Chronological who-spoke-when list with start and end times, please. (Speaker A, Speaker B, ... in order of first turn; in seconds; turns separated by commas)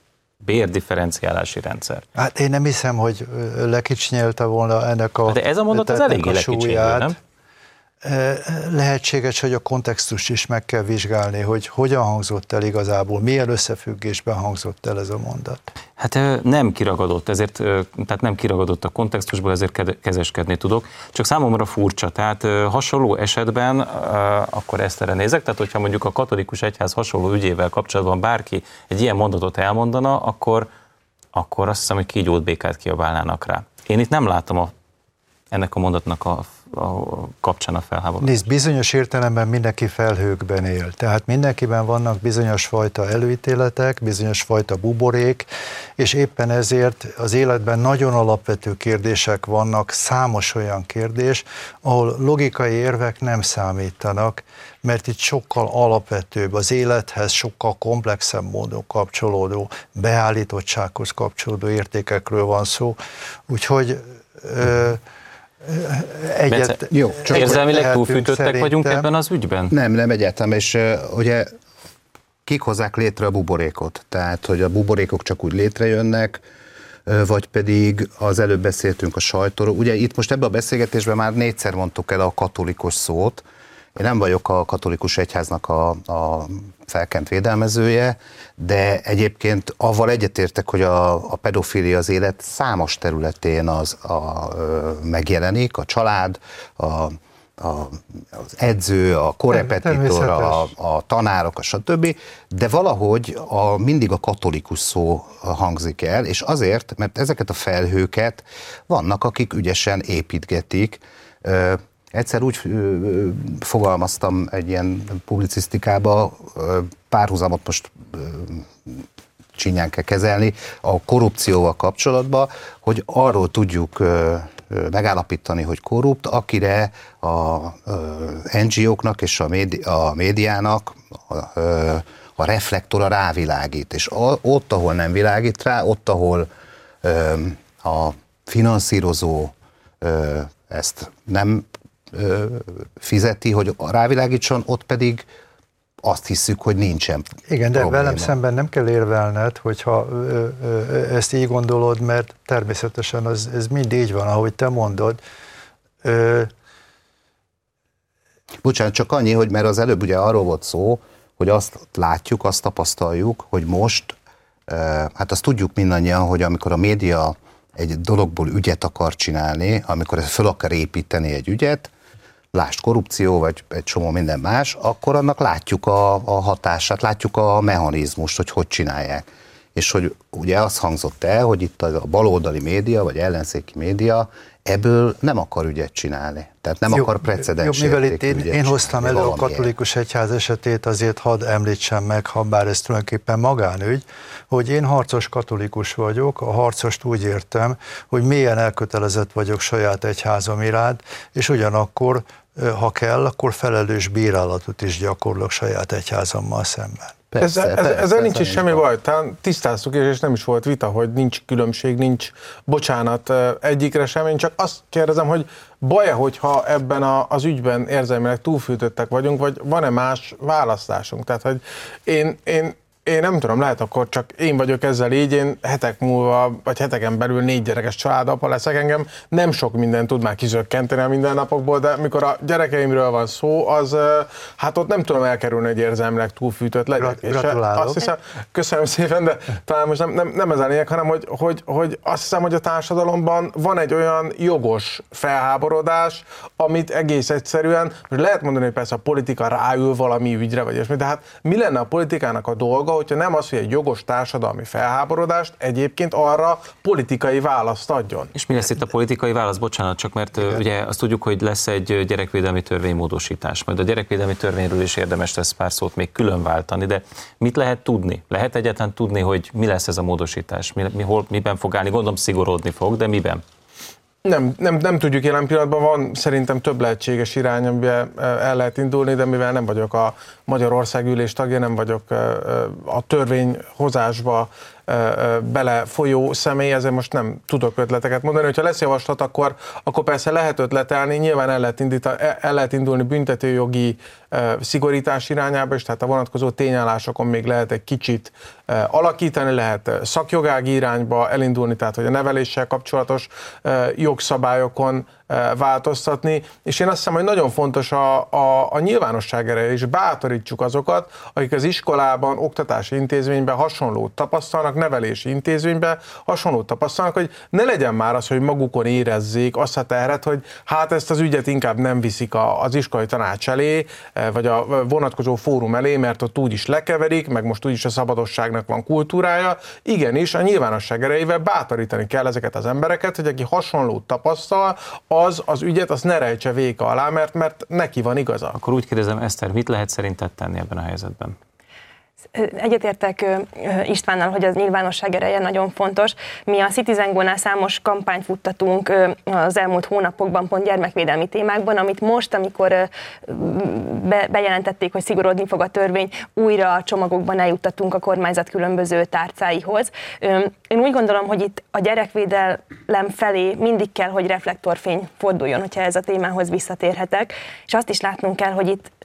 Speaker A: 0.4-2.0, Speaker B: 2.2-7.2, Speaker A: 5.3-7.2, Speaker B: 8.0-15.6, Speaker A: 16.0-30.7, Speaker A: 31.3-34.7, Speaker A: 35.5-38.3, Speaker B: 38.2-63.0, Speaker B: 63.5-65.0, Speaker B: 65.6-69.1, Speaker A: 66.5-69.7, Speaker C: 66.9-67.6, Speaker C: 69.7-71.5, Speaker C: 72.5-76.4, Speaker C: 77.1-83.4, Speaker C: 84.0-119.0, Speaker B: 99.5-100.7, Speaker C: 119.5-136.5, Speaker C: 137.0-145.3, Speaker C: 146.0-148.3, Speaker B: 147.5-155.2, Speaker B: 156.0-156.5, Speaker C: 158.6-164.2, Speaker C: 164.7-171.9, Speaker C: 172.5-189.7, Speaker B: 186.9-207.1, Speaker C: 207.3-208.8, Speaker D: 207.4-258.3, Speaker B: 237.0-238.0, Speaker A: 258.4-273.4, Speaker D: 274.2-338.6, Speaker A: 338.6-341.4, Speaker E: 342.3-368.9